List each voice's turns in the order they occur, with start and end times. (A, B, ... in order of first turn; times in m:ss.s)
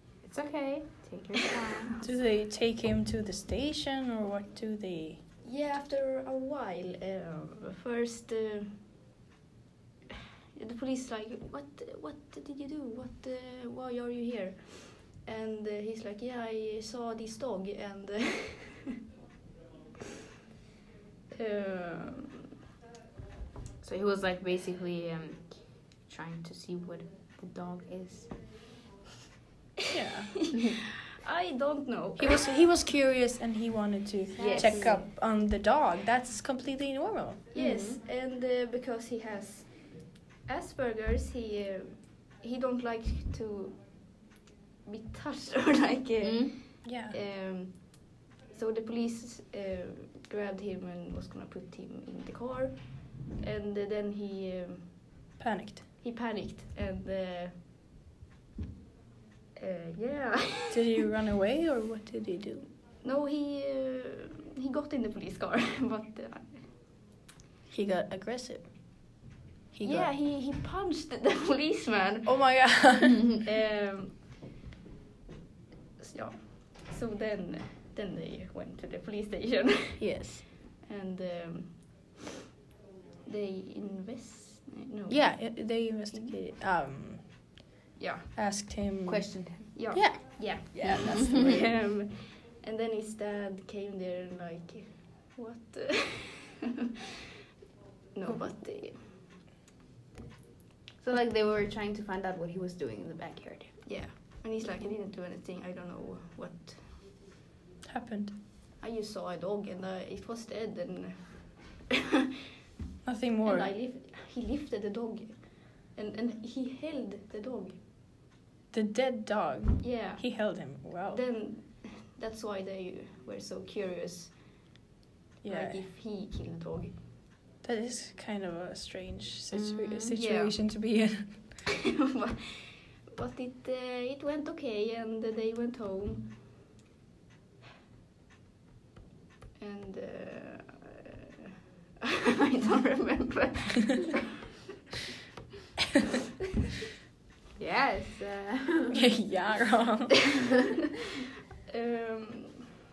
0:00.2-0:02.0 A
0:02.0-0:05.2 B
0:05.4-0:08.8 C
0:10.6-0:19.0 C
0:21.3-0:22.5 C
0:23.8-0:28.3 A
0:29.9-0:30.5 B
0:30.5-0:32.5 C
0:32.2-0:37.5 B
0:34.3-0:35.1 A
0:34.4-0:34.9 C
0:37.5-0:43.8 C
0:37.5-0:38.0 A
0:44.8-0:54.9 C
0:46.2-0:46.6 A
0:46.8-0:47.2 B
0:55.4-0:55.8 B
0:56.0-0:57.6 C
0:59.6-1:01.0 C
1:00.7-1:02.7 B
1:03.0-1:06.7 C
1:07.7-1:08.7 B
1:09.7-1:10.1 B
1:09.8-1:12.9 C
1:12.2-1:13.3 B
1:13.4-1:14.2 C
1:16.0-1:20.3 C
1:20.0-1:20.4 B
1:20.8-1:22.1 C
1:23.2-1:26.3 C
1:25.1-1:27.2 B
1:28.0-1:28.3 C
1:28.3-1:31.7 B
1:29.0-1:29.7 A
1:29.7-1:36.8 C
1:30.8-1:31.6 A
1:38.1-1:39.1 C
1:41.0-1:43.7 A
1:43.8-1:47.0 C
1:47.8-1:48.3 B
1:48.8-1:52.3 C
1:53.0-1:53.7 B
1:53.4-1:57.8 C
1:58.7-2:01.2 B
1:59.8-2:04.4 C
2:05.4-2:05.8 B
2:05.4-2:07.0 C
2:07.6-2:11.5 B
2:09.5-2:10.1 A
2:10.1-2:10.6 C
2:11.8-2:16.3 C
2:19.6-2:24.4 C
2:27.6-2:29.0 A
2:28.9-2:30.3 B
2:31.7-2:32.7 C